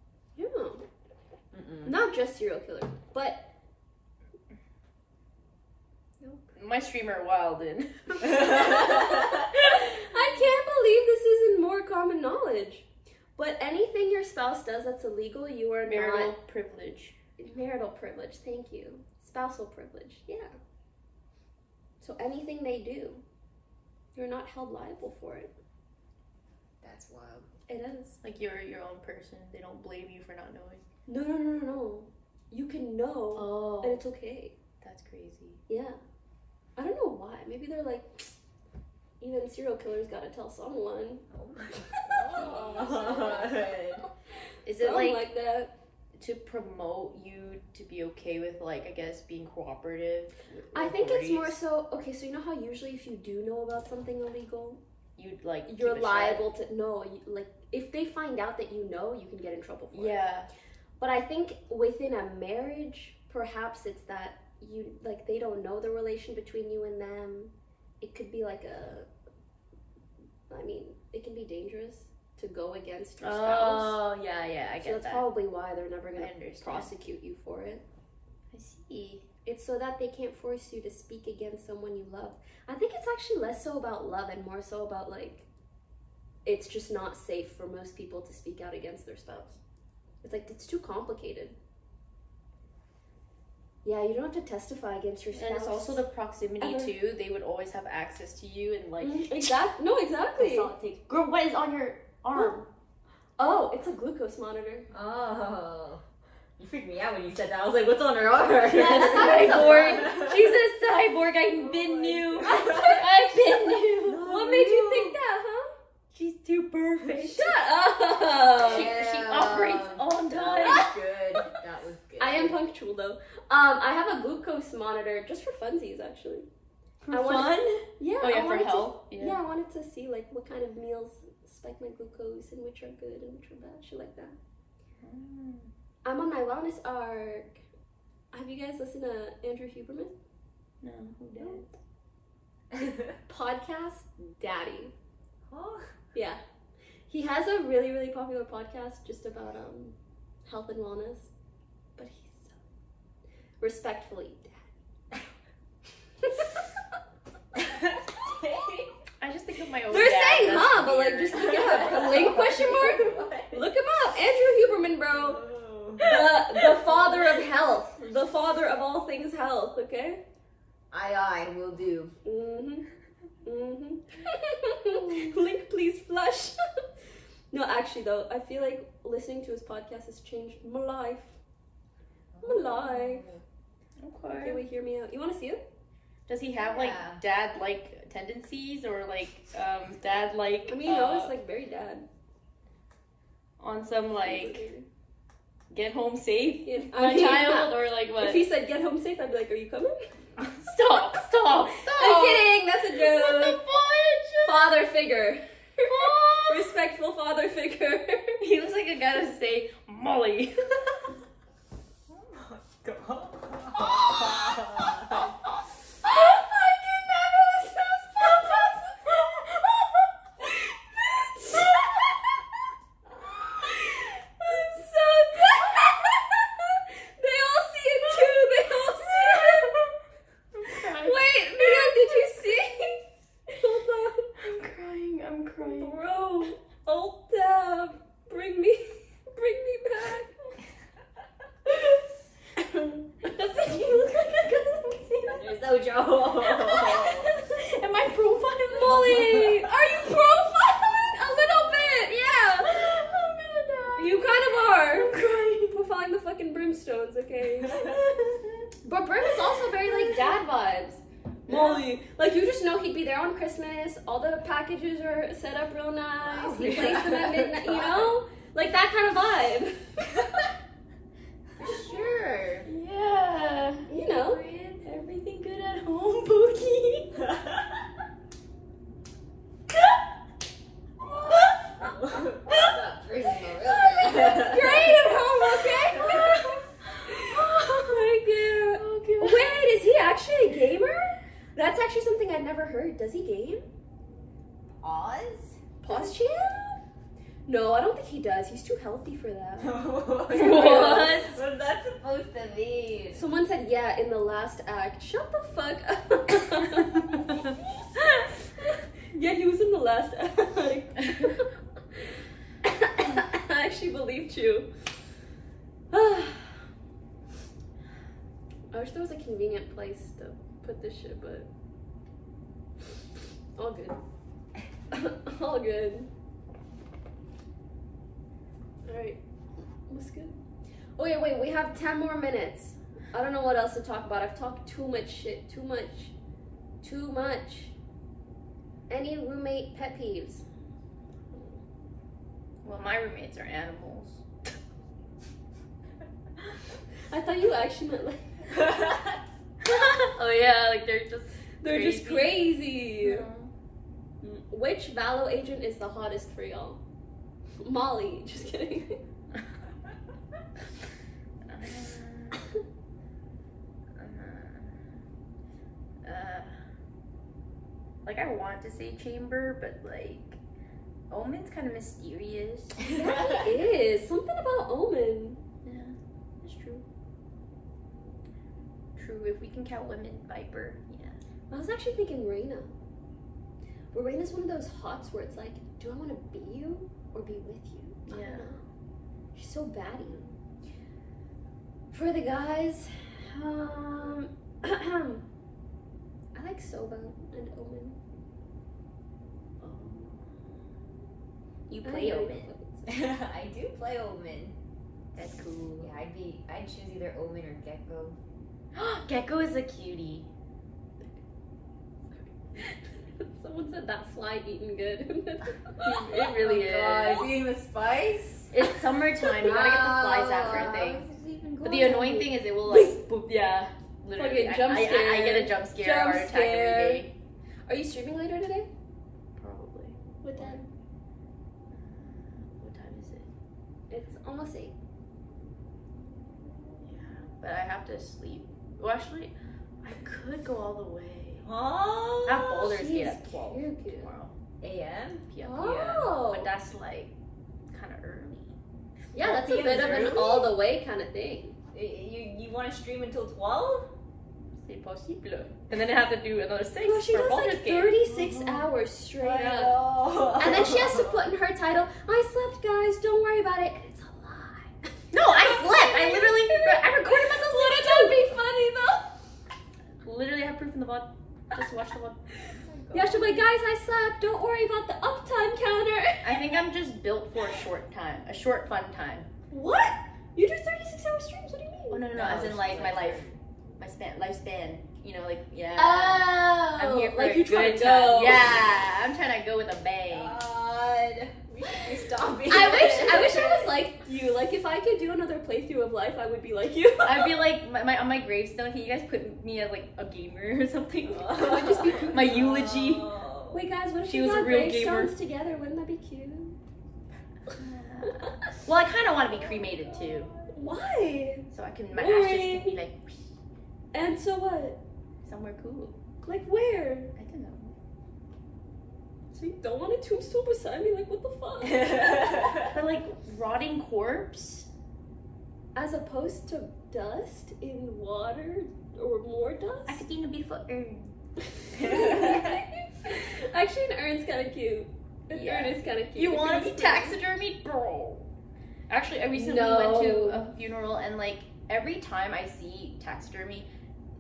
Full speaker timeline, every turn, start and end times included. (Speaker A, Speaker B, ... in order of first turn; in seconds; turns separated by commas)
Speaker A: 0.4-0.8, Speaker B: 1.5-1.9, Speaker A: 1.9-3.5, Speaker B: 6.5-9.0, Speaker A: 8.2-16.4, Speaker C: 8.4-9.4, Speaker B: 9.7-10.4, Speaker B: 15.9-17.2, Speaker A: 17.4-20.5, Speaker A: 22.0-23.2, Speaker A: 24.1-25.5, Speaker C: 26.8-27.5, Speaker A: 27.7-28.2, Speaker B: 28.2-30.8, Speaker A: 31.1-34.5, Speaker B: 33.4-34.0, Speaker B: 34.8-35.6, Speaker A: 35.7-36.0, Speaker A: 36.8-38.3, Speaker A: 39.2-41.2, Speaker C: 41.3-44.0, Speaker A: 41.8-43.7, Speaker B: 44.6-45.3, Speaker A: 44.8-45.7, Speaker B: 46.2-51.6, Speaker A: 50.7-54.8, Speaker B: 55.2-56.5, Speaker A: 55.7-60.2, Speaker B: 59.9-60.5, Speaker A: 61.0-69.1, Speaker A: 70.5-74.0, Speaker B: 73.2-75.2, Speaker A: 74.8-77.8, Speaker B: 76.1-76.9, Speaker B: 78.5-79.3, Speaker A: 79.5-85.5, Speaker A: 86.5-89.6, Speaker A: 90.2-91.6, Speaker A: 93.8-96.0, Speaker B: 95.3-99.6, Speaker A: 96.6-96.9, Speaker A: 99.0-100.7, Speaker B: 100.4-102.6, Speaker A: 102.3-102.7, Speaker A: 103.4-104.9, Speaker C: 104.9-106.0, Speaker C: 106.6-110.4, Speaker B: 108.7-114.8, Speaker A: 108.8-110.2, Speaker C: 111.5-113.1, Speaker A: 112.4-115.7, Speaker C: 114.1-115.1, Speaker B: 116.1-117.5, Speaker A: 117.3-118.9, Speaker C: 118.6-122.6, Speaker B: 118.7-120.9, Speaker A: 120.6-121.0, Speaker A: 122.2-126.5, Speaker B: 127.0-129.4, Speaker A: 127.1-134.4, Speaker B: 135.0-135.7, Speaker A: 136.0-137.6, Speaker A: 138.3-140.1, Speaker B: 140.8-141.7, Speaker A: 143.3-144.9, Speaker C: 145.5-145.9, Speaker A: 146.1-146.4, Speaker A: 147.1-149.9, Speaker A: 150.5-151.3, Speaker A: 152.0-152.6, Speaker A: 153.6-154.7, Speaker A: 156.2-156.6, Speaker C: 157.6-158.9, Speaker B: 159.2-161.9, Speaker A: 159.9-165.4, Speaker C: 161.3-163.7, Speaker C: 165.1-167.0, Speaker A: 166.0-170.2, Speaker C: 170.9-172.2, Speaker A: 172.2-172.9, Speaker A: 173.4-176.6, Speaker A: 177.5-181.4, Speaker C: 182.3-183.4, Speaker A: 182.4-183.3, Speaker B: 184.0-184.6, Speaker A: 184.4-185.6, Speaker B: 186.3-191.3, Speaker C: 186.7-187.2, Speaker A: 190.7-192.1, Speaker B: 193.6-194.7, Speaker A: 194.2-194.9, Speaker B: 195.7-198.4, Speaker A: 196.7-200.2, Speaker B: 200.4-204.8, Speaker A: 201.7-203.6, Speaker A: 204.4-208.4, Speaker B: 205.8-206.7, Speaker B: 208.4-211.1, Speaker C: 212.3-215.3, Speaker B: 213.8-215.2, Speaker B: 216.1-216.4, Speaker A: 216.1-219.2, Speaker B: 218.2-218.7, Speaker B: 219.3-219.7, Speaker A: 220.5-221.8, Speaker A: 223.2-229.8, Speaker B: 228.6-229.9, Speaker B: 230.5-232.3, Speaker A: 230.7-234.4, Speaker B: 234.4-236.0, Speaker A: 235.7-240.3, Speaker B: 242.6-245.6, Speaker A: 243.3-245.0, Speaker C: 245.3-247.3, Speaker B: 246.6-250.2, Speaker A: 248.7-252.8, Speaker B: 250.8-255.8, Speaker A: 254.0-257.9, Speaker B: 257.9-258.5, Speaker A: 258.8-270.3, Speaker B: 259.3-260.4, Speaker B: 261.5-261.8, Speaker C: 266.2-268.1, Speaker B: 266.5-267.1, Speaker B: 271.6-277.2, Speaker A: 271.6-272.1, Speaker A: 273.9-274.4, Speaker C: 273.9-274.8, Speaker C: 277.3-277.7, Speaker B: 281.2-281.9, Speaker C: 281.8-284.9, Speaker B: 282.5-282.8, Speaker B: 283.6-289.8, Speaker A: 284.2-293.6, Speaker C: 294.8-295.6, Speaker A: 295.8-296.8, Speaker A: 297.5-301.1, Speaker C: 299.6-303.2, Speaker B: 300.3-301.4, Speaker A: 303.1-307.0, Speaker A: 308.0-314.8, Speaker A: 315.9-316.6, Speaker A: 318.7-321.5, Speaker A: 323.6-324.0, Speaker A: 324.9-326.1, Speaker A: 328.9-329.2, Speaker A: 329.9-330.4, Speaker A: 331.0-336.1, Speaker A: 336.8-337.8, Speaker A: 338.9-340.4, Speaker B: 342.6-344.2, Speaker A: 347.1-348.6, Speaker C: 348.6-349.1, Speaker B: 349.6-353.5, Speaker A: 351.6-353.3, Speaker A: 354.2-356.8, Speaker A: 357.6-359.0, Speaker B: 361.4-362.5, Speaker B: 364.0-364.8, Speaker B: 366.0-366.5, Speaker B: 368.0-370.4, Speaker B: 371.1-372.8, Speaker A: 372.9-375.4, Speaker C: 372.9-373.4, Speaker B: 375.6-376.8, Speaker B: 379.0-381.2, Speaker A: 381.5-382.7, Speaker A: 383.9-388.6, Speaker B: 388.1-388.5, Speaker A: 389.3-390.2, Speaker A: 391.9-395.3, Speaker A: 396.3-398.0, Speaker B: 399.6-400.8, Speaker B: 401.7-402.5, Speaker A: 401.8-402.9, Speaker C: 402.9-404.6, Speaker B: 405.1-405.9, Speaker C: 405.8-408.2, Speaker B: 408.7-410.3, Speaker A: 412.1-416.3, Speaker B: 415.8-417.3, Speaker C: 416.1-418.5, Speaker B: 418.5-421.0, Speaker C: 419.3-422.3, Speaker B: 421.6-427.1, Speaker A: 422.7-423.0, Speaker A: 424.2-427.1, Speaker A: 427.7-428.7, Speaker B: 429.4-430.6, Speaker A: 430.2-430.6, Speaker B: 431.7-433.3, Speaker A: 433.9-434.8, Speaker B: 436.8-441.5, Speaker C: 441.4-442.7, Speaker B: 442.2-444.3, Speaker A: 442.7-444.1, Speaker C: 444.6-445.2, Speaker B: 445.3-447.1, Speaker A: 445.4-446.5, Speaker B: 447.7-448.6, Speaker A: 449.1-451.6, Speaker B: 449.2-450.3, Speaker C: 449.2-450.5, Speaker C: 451.7-453.9, Speaker B: 454.6-458.0, Speaker A: 456.8-459.8, Speaker C: 458.1-458.7, Speaker C: 459.2-461.2, Speaker A: 460.4-469.2, Speaker B: 465.1-468.3, Speaker B: 470.0-473.5, Speaker A: 472.4-476.5, Speaker B: 476.2-479.3, Speaker A: 479.5-482.2, Speaker B: 481.9-483.3, Speaker C: 482.1-483.3, Speaker B: 483.8-490.4, Speaker C: 485.8-486.7, Speaker A: 485.8-488.5, Speaker C: 488.3-488.5, Speaker C: 490.1-493.8, Speaker A: 492.5-497.4, Speaker B: 497.0-503.1, Speaker C: 501.1-503.6, Speaker A: 501.4-502.4, Speaker A: 503.5-506.6, Speaker B: 504.0-505.1, Speaker B: 507.5-510.3, Speaker A: 508.1-508.6, Speaker C: 509.2-510.6, Speaker A: 510.5-512.8, Speaker B: 511.5-513.3, Speaker A: 513.9-514.8, Speaker B: 515.2-516.0, Speaker A: 516.2-517.1, Speaker B: 517.2-517.8, Speaker A: 519.3-522.7, Speaker C: 521.9-522.5, Speaker B: 522.7-524.7, Speaker A: 525.8-530.0, Speaker B: 529.9-531.1, Speaker A: 531.6-537.2, Speaker C: 531.8-532.5, Speaker B: 535.3-538.3, Speaker B: 538.9-543.7, Speaker A: 539.3-540.5